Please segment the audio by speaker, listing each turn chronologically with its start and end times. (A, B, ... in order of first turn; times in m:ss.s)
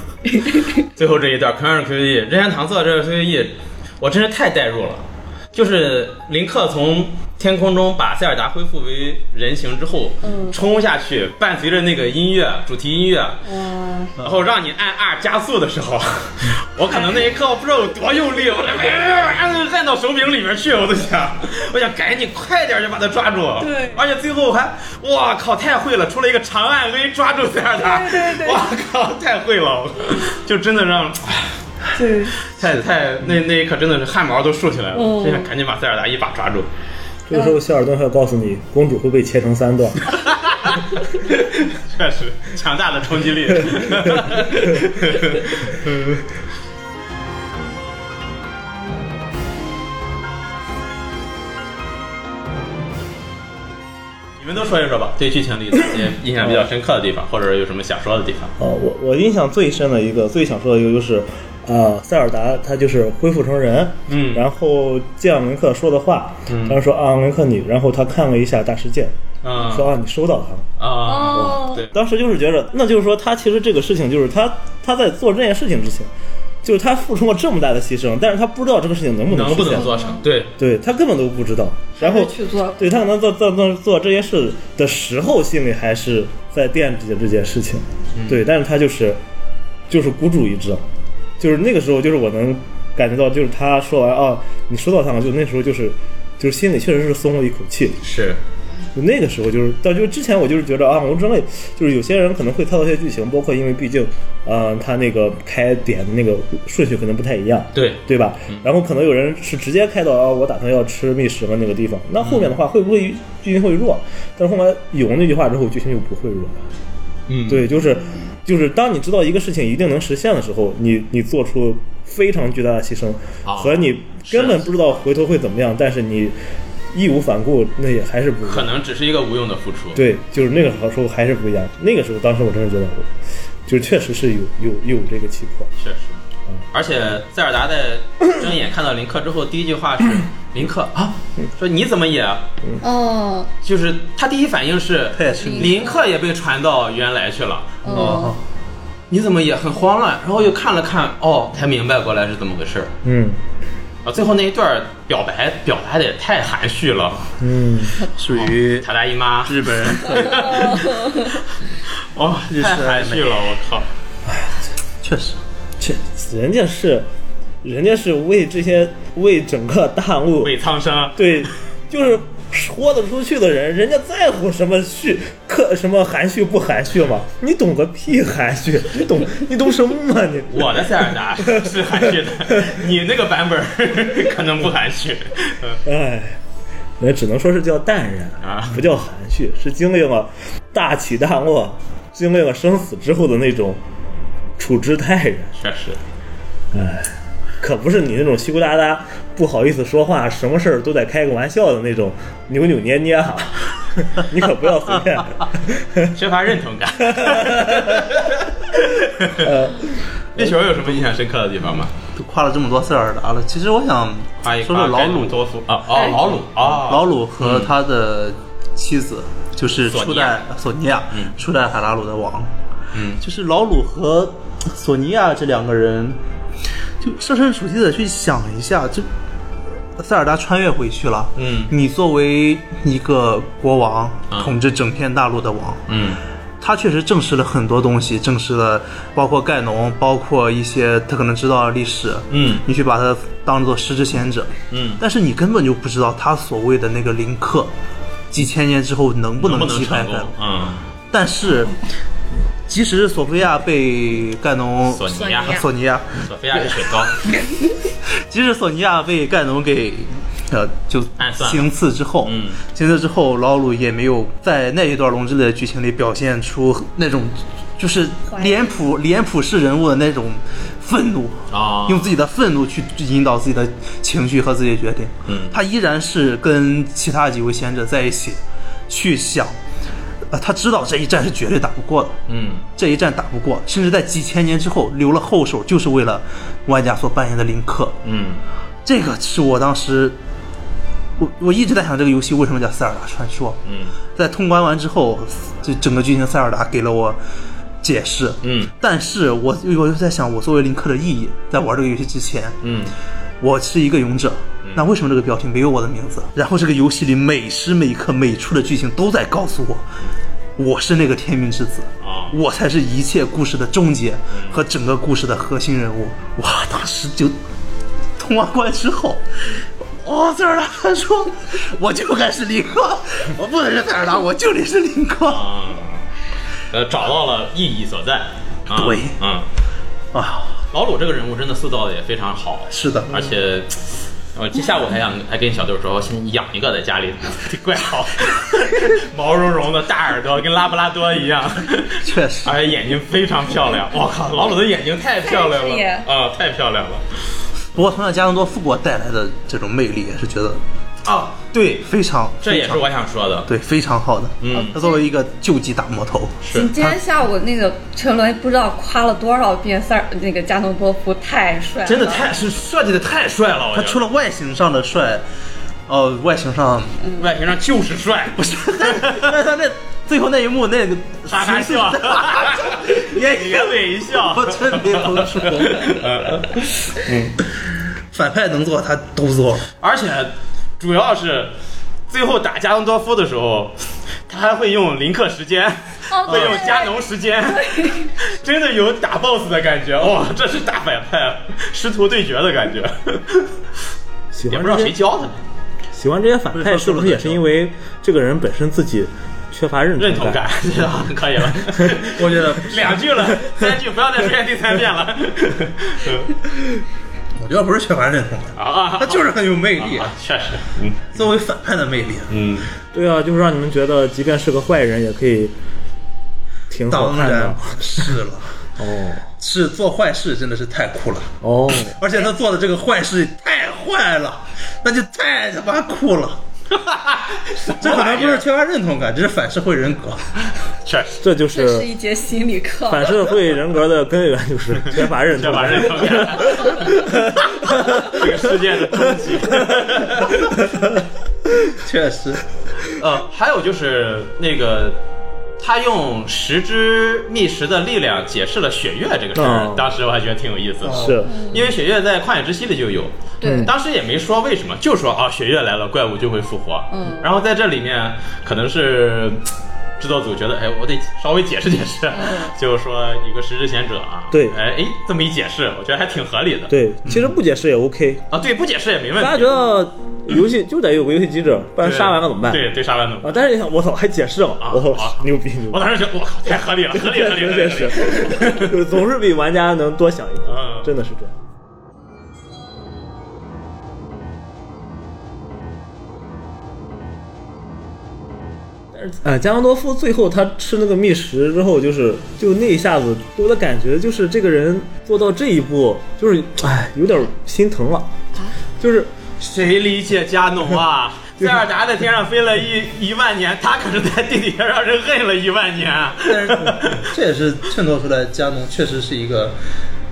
0:00.3-0:00.8 A
0:01.0-0:13.4 B
0:10.2-0:10.6 A
0:13.4-0:14.1 A
0:14.2-0:31.5 B
0:16.9-0:17.2 A
0:23.6-0:24.0 A
0:27.8-0:28.6 A
0:31.9-0:32.4 A
0:32.5-0:36.7 B
0:34.9-0:35.5 A
0:37.3-0:40.1 C
0:40.1-0:46.1 B
0:54.4-0:58.5 B
0:56.4-0:56.7 C
0:58.6-1:10.7 C
1:04.1-1:04.5 B
1:06.5-1:06.8 B
1:09.4-1:09.9 B
1:10.8-1:11.9 B
1:11.0-1:11.8 A
1:11.3-1:16.1 C
1:16.6-1:19.9 C
1:19.3-1:20.5 B
1:19.7-1:20.2 A
1:20.6-1:29.2 C
1:22.0-1:22.9 A
1:28.2-1:28.4 B
1:29.9-1:30.8 C
1:31.4-1:38.0 C
1:38.0-1:38.4 B
1:38.9-1:56.6 C
1:47.7-1:48.6 B
1:52.2-1:52.6 B
1:57.3-1:57.7 B
1:57.5-2:06.3 C
2:03.4-2:04.7 B
2:06.9-2:08.7 C
2:08.4-2:10.0 B
2:09.9-2:13.1 C
2:13.6-2:15.7 C
2:15.8-2:16.2 B
2:16.7-2:22.5 B
2:22.8-2:23.5 A
2:23.6-2:28.2 B
2:25.1-2:25.9 D
2:25.3-2:26.1 A
2:27.8-2:28.3 A
2:27.9-2:28.4 D
2:29.1-2:32.9 B
2:33.0-2:33.4 C
2:34.0-2:37.3 B
2:37.4-2:38.0 C
2:38.2-2:38.9 D
2:38.3-2:41.4 B
2:39.4-2:40.9 D
2:40.6-2:41.3 A
2:42.1-2:43.9 B
2:42.5-2:43.3 D
2:45.0-2:45.4 D
2:45.8-2:47.0 C
2:47.6-2:50.5 C
2:50.4-2:51.5 B
2:51.1-3:02.7 C
3:00.5-3:05.8 B
3:05.8-3:06.4 C
3:07.0-3:13.8 C
3:08.4-3:08.8 B
3:14.6-3:15.5 C
3:15.6-3:16.0 B
3:16.7-3:26.1 C
3:26.1-3:29.5 B
3:27.0-3:28.0 C
3:29.4-3:30.6 C
3:30.4-3:31.9 B
3:32.2-3:35.4 D
3:34.4-3:37.7 B
3:35.9-3:36.2 A
3:36.7-3:42.5 D
3:39.9-3:40.4 B
3:42.9-3:43.2 B
3:43.2-3:46.2 D
3:47.0-3:49.1 D
3:50.0-3:55.8 D
3:51.4-3:51.7 B
3:55.9-3:56.2 B
3:56.6-4:07.7 D
4:02.3-4:02.6 B
4:04.7-4:05.0 B
4:08.3-4:10.3 D
4:09.4-4:10.8 B
4:11.1-4:11.7 D
4:12.7-4:17.3 D
4:14.9-4:15.6 B
4:16.2-4:17.2 B
4:18.2-4:39.6 D
4:21.2-4:21.7 B
4:22.2-4:22.6 B
4:28.3-4:28.8 A
4:31.5-4:32.1 B
4:35.3-4:35.6 B
4:40.3-4:42.2 D
4:42.3-4:42.7 B
4:42.8-4:48.0 D
4:48.0-4:48.4 B
4:48.8-4:50.2 D
4:51.2-4:53.6 D
4:53.6-4:53.9 B
4:54.1-4:57.2 D
4:57.8-5:02.6 D
4:58.4-4:58.7 B
5:02.6-5:02.9 B
5:03.4-5:09.8 D
5:10.6-5:17.4 D
5:12.0-5:12.4 B
5:14.3-5:14.6 B
5:18.2-5:25.5 D
5:25.3-5:26.0 B
5:26.7-5:29.5 B
5:28.7-5:29.1 D
5:30.1-5:30.6 D
5:30.7-5:47.0 B
5:32.7-5:33.3 D
5:42.0-5:42.6 D
5:45.2-5:46.1 A
5:47.7-5:50.6 D
5:51.0-5:51.9 B
5:51.8-5:52.9 D
5:52.4-5:53.5 B
5:53.5-5:57.0 D
5:54.4-5:54.8 B
5:54.5-5:55.0 A
5:56.4-5:56.7 B
5:56.5-6:02.2 A
6:01.8-6:04.0 B
6:03.7-6:05.2 D
6:05.9-6:07.0 D
6:07.2-6:09.3 B
6:08.4-6:16.4 D
6:11.3-6:17.3 B
6:18.1-6:19.7 D
6:19.8-6:21.5 B
6:22.1-6:23.7 B
6:24.3-6:33.5 B
6:26.1-6:26.9 A
6:26.3-6:26.6 D
6:27.5-6:28.1 A
6:34.3-6:35.0 C
6:34.5-6:35.4 B
6:35.9-6:40.4 C
6:36.5-6:37.4 D
6:40.0-6:46.4 B
6:41.7-6:41.9 C
6:42.1-6:43.0 D
6:47.4-6:50.1 D
6:48.6-6:51.2 B
6:51.1-6:52.3 D
6:52.3-6:52.7 B
6:52.9-6:55.5 C
6:56.7-6:58.2 C
6:56.9-6:58.5 D
6:58.8-6:59.3 C
6:59.4-7:06.4 D
7:01.4-7:02.0 C
7:06.7-7:08.4 B
7:07.8-7:10.3 D
7:10.8-7:11.2 B
7:11.2-7:11.9 C
7:11.5-7:13.2 A
7:12.9-7:20.0 C
7:15.3-7:20.5 B
7:20.6-7:20.9 C
7:21.7-7:22.4 D
7:22.9-7:25.0 B
7:25.6-7:39.5 B
7:29.3-7:29.9 C
7:30.8-7:31.2 D
7:30.9-7:31.4 C
7:31.2-7:31.7 A
7:33.4-7:33.7 A
7:33.4-7:33.7 C
7:36.9-7:37.3 A
7:40.0-7:47.3 B
7:42.1-7:42.5 A
7:44.3-7:44.6 C
7:46.7-7:48.2 C
7:48.3-7:49.5 B
7:49.2-7:52.6 C
7:51.8-7:53.4 B
7:53.2-7:55.9 C
7:54.6-7:58.7 B
7:56.9-8:01.3 C
8:00.5-8:00.9 B
8:08.9-8:18.1 C
8:18.8-8:19.1 C
8:19.4-8:27.1 B
8:26.2-8:29.6 D